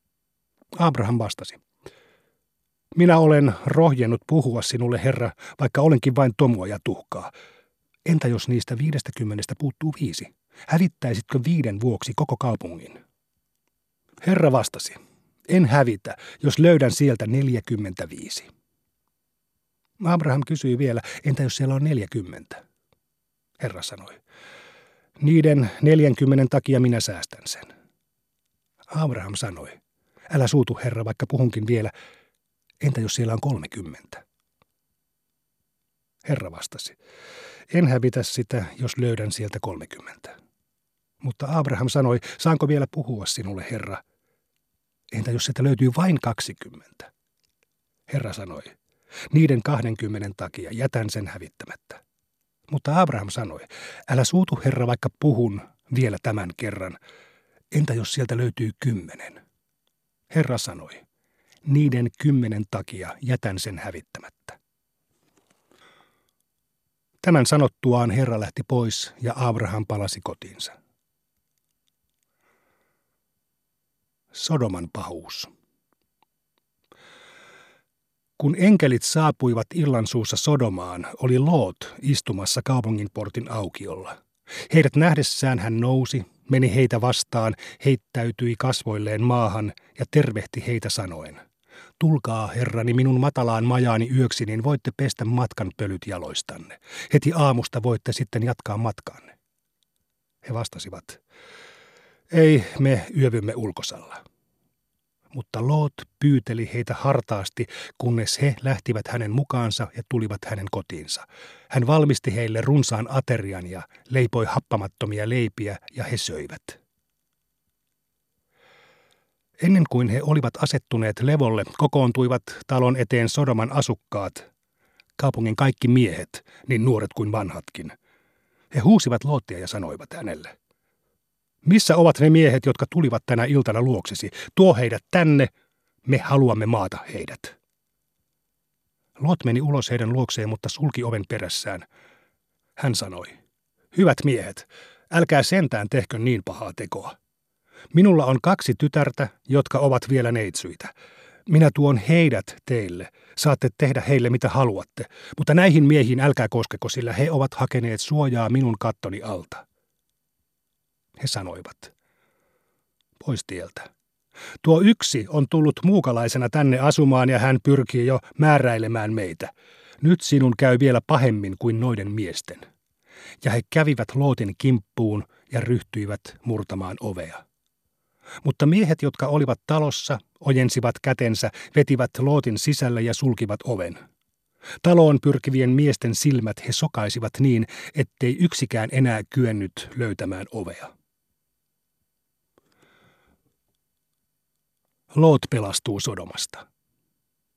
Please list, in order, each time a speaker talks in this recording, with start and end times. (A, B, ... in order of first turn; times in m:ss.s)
0:00.7-0:01.6 A
0:02.9-0:07.3 A
0:08.1-0:13.0 A
0:14.2-0:15.0 A
0:15.5-0:18.5 A
0:20.0-0:22.6 A
0:23.6-0:24.2 A
0:25.2-0:27.7 A
0:28.9-0:29.8 A
0:30.3-0:31.9 A
0:32.8-0:34.2 A
0:36.2-0:37.0 A
0:37.7-0:40.4 A
0:41.2-0:44.0 A
0:45.1-0:47.1 A
0:48.1-0:48.8 A
0:49.3-0:52.0 A
0:52.7-0:57.0 A
0:57.7-0:59.4 A
1:00.3-1:01.0 A
1:01.7-1:04.6 A
1:07.2-1:10.7 A
1:14.3-1:15.5 A
1:18.4-1:24.2 A
1:24.7-1:31.4 A
1:32.0-1:39.3 A
1:40.4-1:41.2 A
1:42.3-1:44.2 A
1:45.3-1:56.8 A
1:59.6-2:04.5 A
2:05.2-2:07.9 A
2:08.7-2:10.5 A
2:11.6-2:15.5 A
2:16.1-2:17.6 A
2:19.2-2:21.8 A
2:22.8-2:23.4 A
2:23.9-2:27.2 A
2:27.9-2:30.9 A
2:31.5-2:39.6 A
2:41.2-2:41.9 A
2:43.2-2:43.9 A
2:44.6-2:52.6 A
2:53.4-2:57.4 A
2:58.4-3:04.0 A
3:04.8-3:10.9 A
3:15.1-3:16.6 A